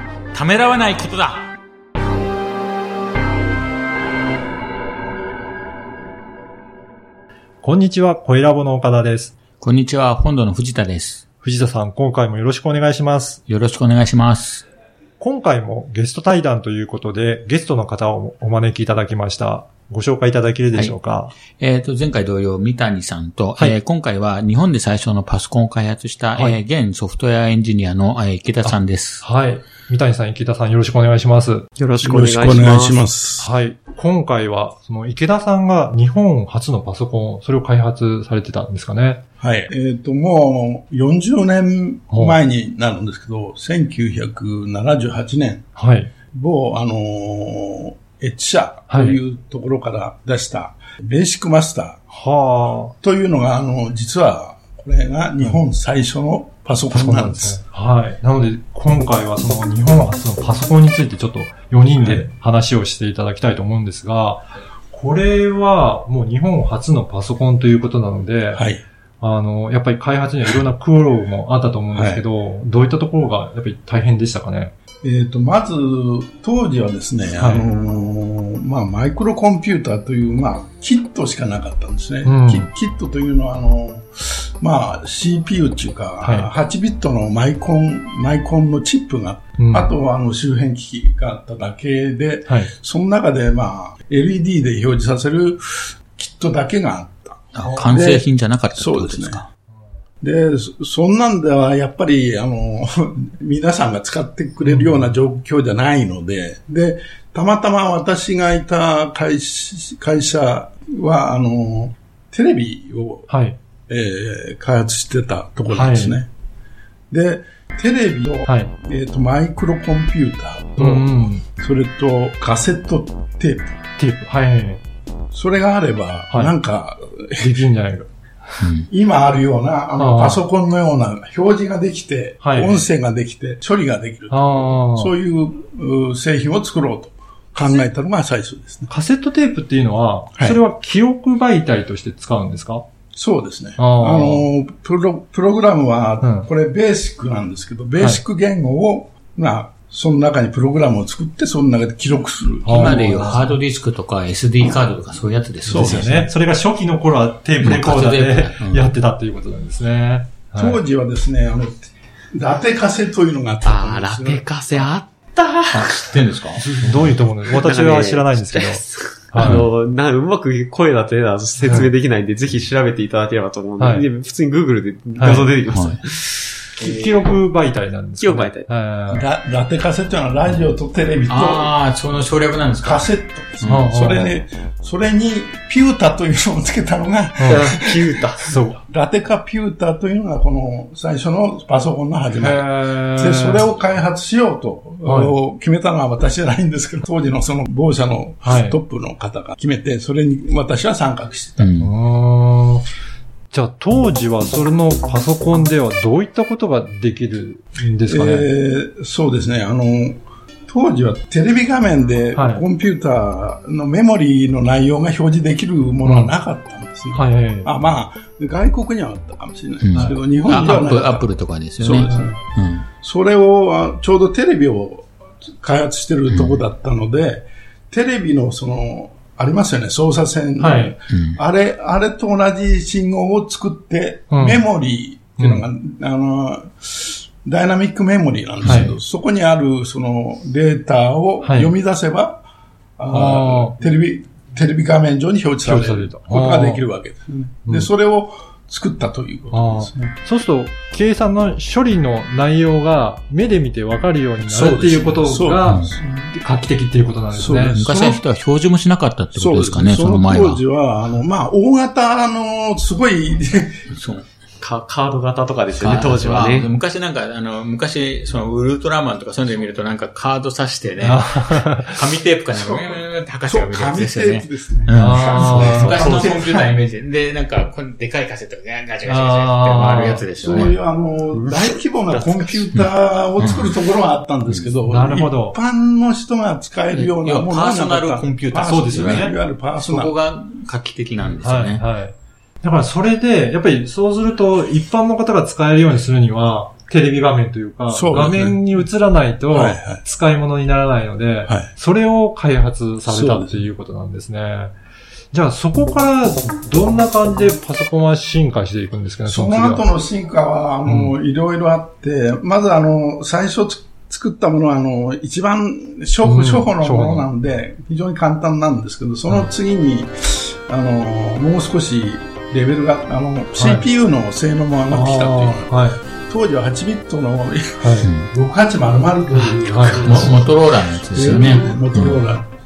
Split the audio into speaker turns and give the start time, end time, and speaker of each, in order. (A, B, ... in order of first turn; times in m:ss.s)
0:00.3-0:01.5 A
0:07.6-0:09.3 B
0:09.6-0:11.2 A
0:11.4-0:13.4 B
0:13.5-0:14.6 A
0:15.2-0:21.3 B
0:21.5-0:29.2 A
0:28.6-0:31.7 B
0:31.8-0:33.0 C
0:32.0-0:33.5 D
0:33.4-0:39.2 B
0:39.4-0:45.6 D
0:45.8-0:46.1 B
0:46.3-0:52.0 D
0:48.9-0:49.2 B
0:52.1-0:52.9 B
0:53.0-0:57.6 D
0:56.9-1:08.6 B
1:08.5-1:08.8 D
1:09.2-1:14.7 B
1:11.9-1:12.2 D
1:15.0-1:39.4 D
1:17.4-1:17.6 B
1:22.2-1:22.7 B
1:26.2-1:26.5 B
1:29.6-1:29.9 B
1:37.5-1:39.4 A
1:37.7-1:38.0 B
1:40.2-1:53.3 D
1:44.6-1:45.1 B
1:53.3-1:53.6 B
1:53.9-1:56.3 D
1:55.7-1:56.2 B
1:57.1-2:03.8 D
1:58.4-1:58.7 B
2:00.8-2:01.4 B
2:04.0-2:04.8 B
2:05.3-2:07.7 D
2:07.4-2:08.6 B
2:08.6-2:08.9 A
2:08.9-2:18.9 D
2:10.0-2:10.4 B
2:12.4-2:12.8 B
2:14.3-2:15.1 B
2:18.9-2:22.8 B
2:20.3-2:20.6 D
2:23.1-2:33.5 D
2:23.8-2:24.5 B
2:26.2-2:26.5 B
2:32.6-2:33.5 B
2:32.7-2:36.2 A
2:35.6-2:36.3 D
2:35.6-2:40.8 B
2:37.6-2:38.9 A
2:40.6-2:44.5 D
2:43.6-2:57.4 C
2:45.7-2:46.7 A
2:46.8-2:49.6 B
2:49.4-2:49.6 A
2:51.6-2:51.9 B
2:53.8-2:54.0 B
2:55.2-2:55.5 B
2:55.7-2:56.0 A
2:56.8-2:59.3 B
2:58.2-2:58.7 C
2:59.1-3:01.7 D
3:01.3-3:03.1 A
3:02.8-3:08.0 D
3:03.6-3:03.8 A
3:03.6-3:04.3 B
3:07.4-3:07.7 B
3:07.4-3:08.5 C
3:08.4-3:08.8 B
3:08.8-3:21.8 D
3:12.3-3:13.6 B
3:15.0-3:15.4 B
3:18.4-3:18.8 B
3:21.6-3:21.9 A
3:21.8-3:22.8 B
3:23.5-3:28.5 B
3:28.1-3:42.4 D
3:32.3-3:32.6 B
3:36.0-3:36.3 B
3:37.1-3:37.7 B
3:39.8-3:42.8 A
3:39.9-3:41.0 B
3:41.9-3:42.3 B
3:43.0-3:45.1 D
3:45.6-4:02.4 D
3:46.3-3:46.6 A
3:50.6-3:50.9 B
3:51.1-3:51.4 A
3:54.3-3:54.6 B
3:58.6-3:58.9 A
3:58.6-3:59.0 B
4:01.4-4:01.7 B
4:03.0-4:10.1 D
4:03.1-4:03.8 B
4:05.6-4:06.8 B
4:09.5-4:17.8 B
4:14.5-4:16.3 D
4:15.6-4:15.9 A
4:17.3-4:18.2 D
4:17.7-4:20.6 A
4:19.3-4:23.8 D
4:23.9-4:24.3 A
4:24.6-4:26.7 C
4:25.8-4:40.7 A
4:31.0-4:32.0 B
4:32.5-4:36.8 D
4:35.0-4:36.1 B
4:35.8-4:36.3 C
4:39.0-4:40.6 B
4:40.4-4:50.1 D
4:41.3-4:42.7 C
4:43.4-4:43.7 A
4:44.5-4:44.7 A
4:44.8-4:45.6 B
4:46.9-4:51.8 A
4:48.6-4:49.3 B
4:51.4-5:04.7 B
4:57.9-4:58.7 D
4:59.5-5:00.0 D
5:03.1-5:03.7 D
5:05.3-5:09.8 B
5:09.3-5:32.5 D
5:10.8-5:11.1 B
5:16.2-5:17.3 B
5:23.5-5:23.9 B
5:24.9-5:26.0 B
5:27.8-5:28.1 B
5:28.0-5:28.3 A
5:29.3-5:30.4 B
5:30.0-5:32.2 A
5:31.2-5:31.6 B